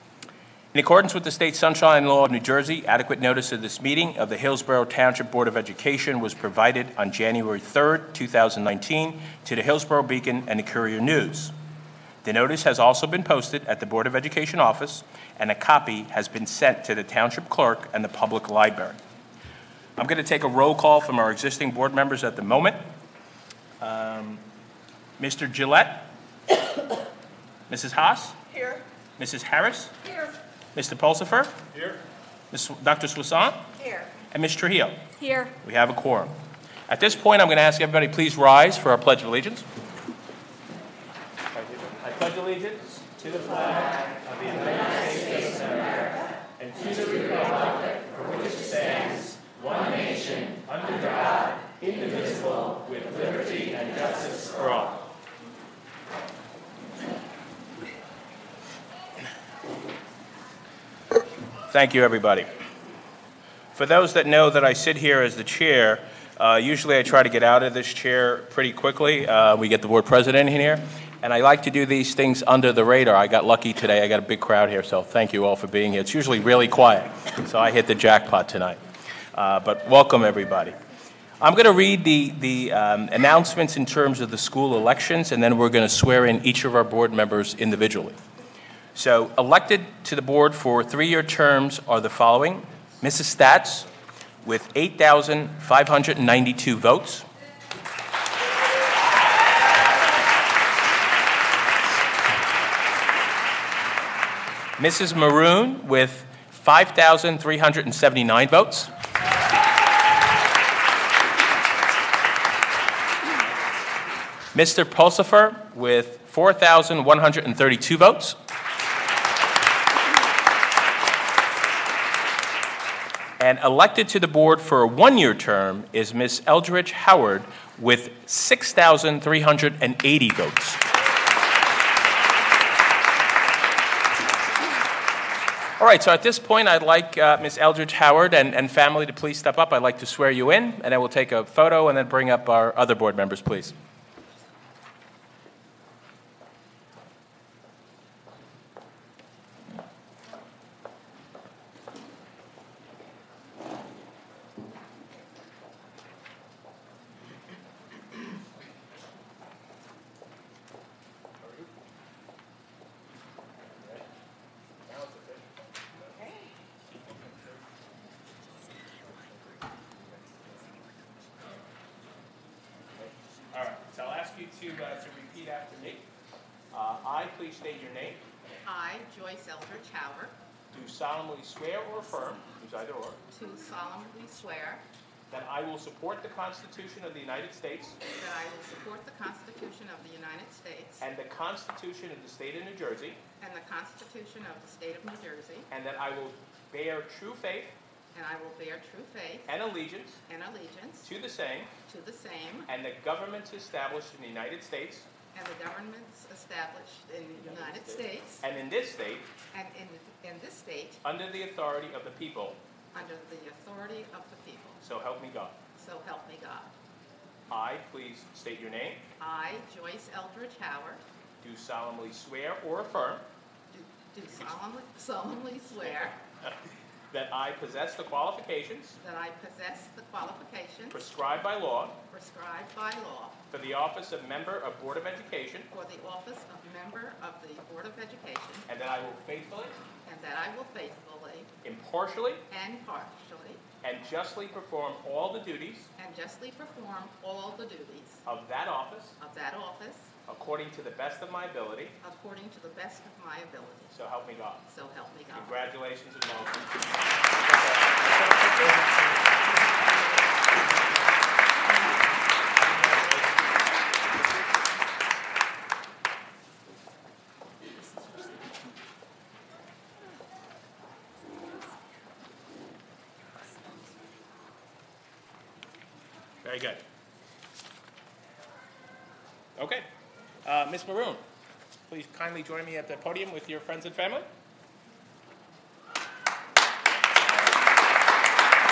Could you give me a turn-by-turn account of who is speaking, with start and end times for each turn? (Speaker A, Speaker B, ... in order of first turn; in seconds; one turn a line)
Speaker A: 0.7-11.5
Speaker A: 12.2-19.0
Speaker A: 20.0-22.8
Speaker A: 23.8-24.4
Speaker A: 25.2-26.1
Speaker A: 27.7-28.4
Speaker A: 29.2-30.0
Speaker A: 30.8-31.9
Speaker A: 32.5-33.8
Speaker A: 34.3-36.3
Speaker A: 36.9-39.7
Speaker A: 41.5-55.0
Speaker A: 61.7-62.5
Speaker A: 63.8-78.8
Speaker A: 79.3-80.8
Speaker A: 81.4-88.2
Speaker A: 89.0-93.9
Speaker A: 94.4-97.3
Speaker A: 104.8-108.9
Speaker A: 114.5-118.4
Speaker A: 123.4-130.8
Speaker A: 135.8-143.7
Speaker A: 161.4-161.7
Speaker A: 164.9-165.5
Speaker B: 166.1-166.5
Speaker A: 172.9-176.1
Speaker A: 176.7-178.2
Speaker B: 178.7-180.3
Speaker A: 180.7-183.2
Speaker B: 183.3-184.8
Speaker A: 185.3-188.0
Speaker B: 188.2-191.1
Speaker A: 191.0-193.2
Speaker B: 193.4-195.7
Speaker A: 195.7-197.8
Speaker B: 198.1-199.6
Speaker A: 199.5-200.2
Speaker B: 200.3-201.1
Speaker A: 201.0-201.7
Speaker B: 201.9-202.7
Speaker A: 202.7-205.1
Speaker B: 205.3-208.4
Speaker A: 207.4-209.3
Speaker B: 209.5-211.0
Speaker A: 211.0-212.6
Speaker B: 212.9-214.8
Speaker A: 214.8-215.6
Speaker B: 215.8-216.7
Speaker A: 217.5-219.0
Speaker B: 219.2-221.0
Speaker A: 221.4-223.2
Speaker B: 223.7-226.2
Speaker A: 225.8-226.6
Speaker A: 227.1-229.0
Speaker B: 229.0-231.1
Speaker A: 230.9-232.0
Speaker B: 232.1-233.4
Speaker A: 233.5-235.7
Speaker B: 235.7-238.7
Speaker A: 238.7-239.8
Speaker B: 240.0-241.5
Speaker A: 241.6-242.4
Speaker B: 242.5-243.6
Speaker A: 243.8-245.9
Speaker B: 246.0-248.2
Speaker A: 248.2-249.2
Speaker B: 249.2-250.1
Speaker A: 250.3-252.0
Speaker B: 252.0-253.9
Speaker A: 253.9-254.7
Speaker B: 254.7-255.6
Speaker A: 255.3-258.9
Speaker A: 262.8-263.3
Speaker A: 276.4-276.8
Speaker A: 279.6-279.9
Speaker A: 280.4-281.2
Speaker A: 281.9-284.3